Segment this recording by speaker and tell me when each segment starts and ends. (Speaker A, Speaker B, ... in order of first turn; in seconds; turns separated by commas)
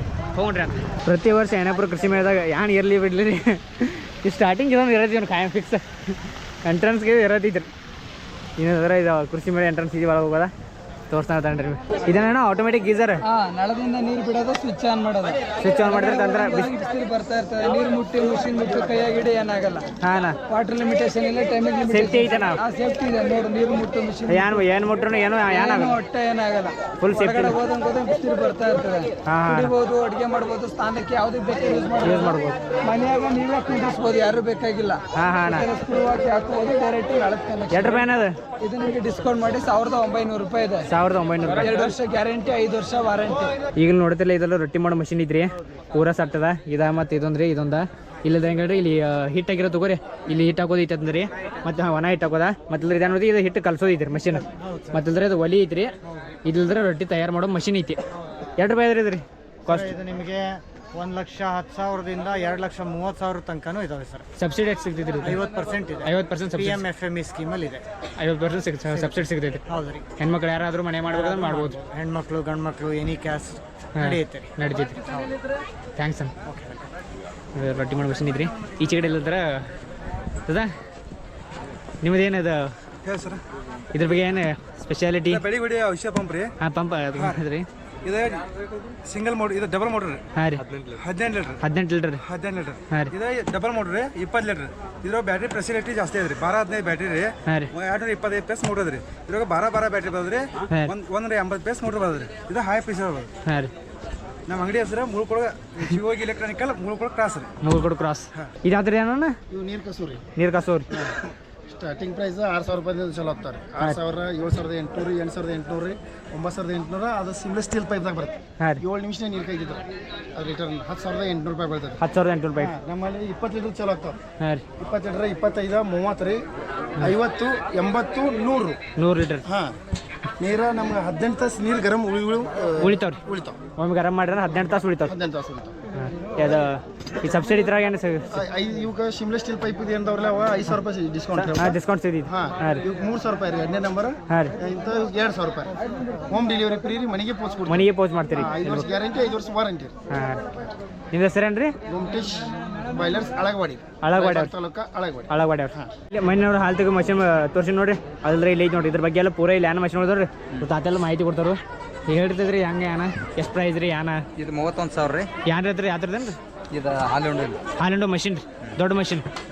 Speaker A: 0.3-7.7, Speaker A: 8.6-10.5, Speaker A: 11.1-13.2, Speaker B: 13.2-19.9, Speaker A: 15.6-16.7, Speaker A: 20.0-20.4, Speaker B: 20.5-24.7, Speaker A: 21.9-22.6, Speaker A: 24.3-26.0, Speaker B: 25.4-38.1, Speaker A: 27.0-27.6, Speaker A: 29.3-29.8, Speaker A: 32.0-32.6, Speaker A: 35.1-35.7, Speaker A: 37.7-38.4, Speaker B: 38.6-40.9, Speaker A: 40.9-41.9, Speaker B: 41.6-43.5, Speaker A: 43.8-55.9, Speaker A: 56.5-58.0, Speaker A: 58.6-59.9, Speaker C: 59.7-64.2, Speaker A: 64.4-65.4, Speaker C: 65.2-67.8, Speaker A: 66.0-66.8, Speaker A: 68.2-69.6, Speaker C: 68.9-70.1, Speaker A: 70.2-71.8, Speaker C: 71.1-74.5, Speaker A: 74.0-75.0, Speaker A: 76.0-76.3, Speaker C: 76.5-76.8, Speaker A: 77.5-79.7, Speaker A: 80.5-80.7, Speaker A: 82.0-82.7, Speaker D: 83.0-83.4, Speaker A: 83.9-85.4, Speaker D: 85.3-86.5, Speaker A: 86.6-87.7, Speaker D: 88.0-90.2, Speaker A: 90.3-90.6, Speaker E: 90.7-91.0, Speaker D: 91.0-91.6, Speaker A: 91.6-92.2, Speaker D: 92.2-103.3, Speaker A: 103.5-103.7, Speaker D: 104.5-107.5, Speaker A: 107.6-109.3, Speaker F: 109.5-110.2, Speaker A: 110.4-110.9, Speaker F: 111.7-119.8, Speaker F: 120.3-122.0, Speaker A: 122.0-122.7, Speaker F: 122.6-124.2, Speaker F: 124.8-126.4, Speaker F: 127.1-128.8, Speaker A: 129.0-129.4, Speaker F: 129.5-129.7, Speaker F: 130.4-133.6, Speaker A: 132.8-133.2, Speaker A: 133.8-135.1, Speaker F: 135.1-135.7, Speaker A: 135.9-138.4, Speaker F: 138.3-141.7, Speaker A: 141.3-142.9, Speaker F: 142.3-145.7, Speaker A: 144.3-144.6, Speaker F: 146.3-147.8, Speaker A: 147.7-148.9, Speaker F: 148.4-149.9, Speaker A: 150.1-150.4, Speaker A: 151.1-151.8, Speaker F: 151.9-153.8, Speaker A: 154.0-154.5, Speaker F: 154.4-155.9, Speaker A: 155.3-164.2, Speaker E: 164.4-165.3, Speaker A: 165.4-166.4, Speaker E: 166.7-167.6, Speaker A: 167.8-169.3